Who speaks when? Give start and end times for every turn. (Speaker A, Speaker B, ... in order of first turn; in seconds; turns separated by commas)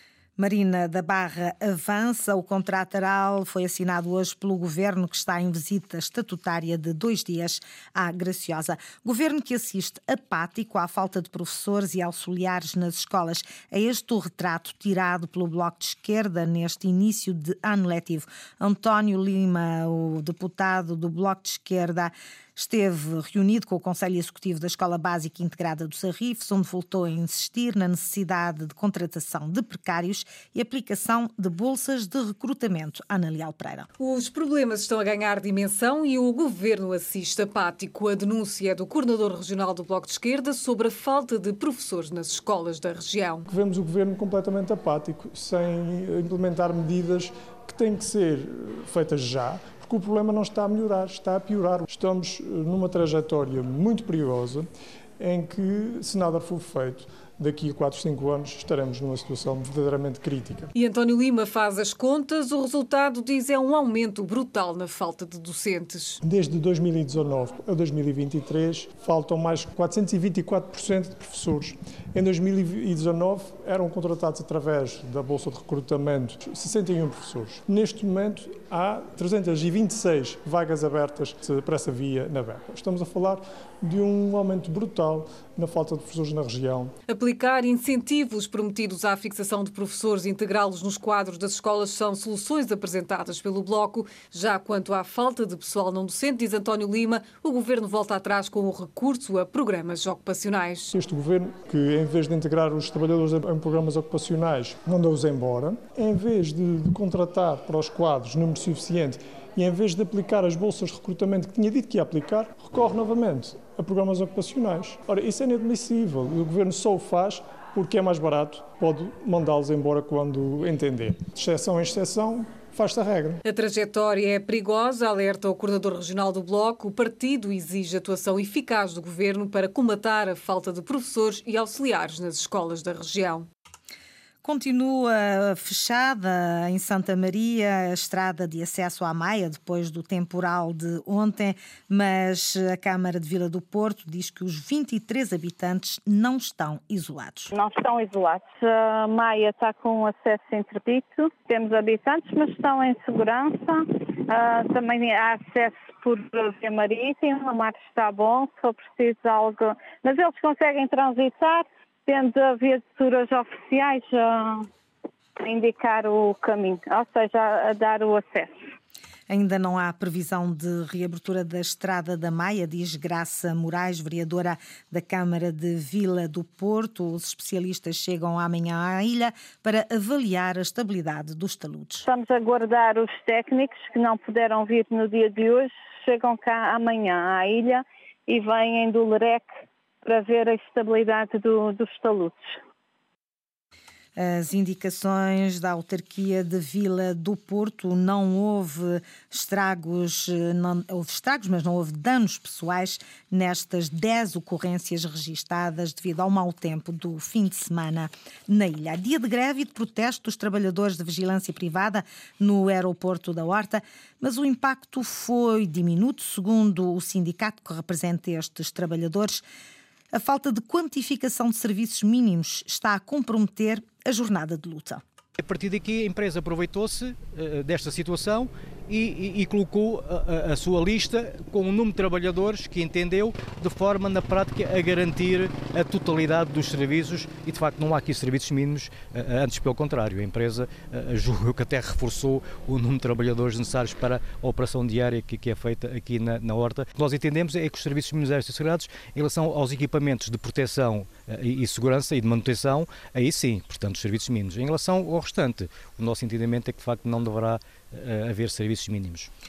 Speaker A: 0.4-33.9, Speaker B: 34.0-43.5, Speaker C: 43.5-54.7, Speaker C: 55.2-60.7, Speaker B: 60.7-66.2, Speaker C: 66.2-86.9, Speaker B: 87.1-101.0, Speaker C: 100.9-123.4, Speaker B: 123.4-133.5, Speaker A: 134.4-147.5, Speaker D: 147.5-164.7, Speaker D: 165.4-168.6, Speaker A: 169.3-182.1, Speaker D: 182.1-192.6, Speaker A: 194.2-219.4, Speaker A: 220.1-225.0, Speaker E: 225.4-259.3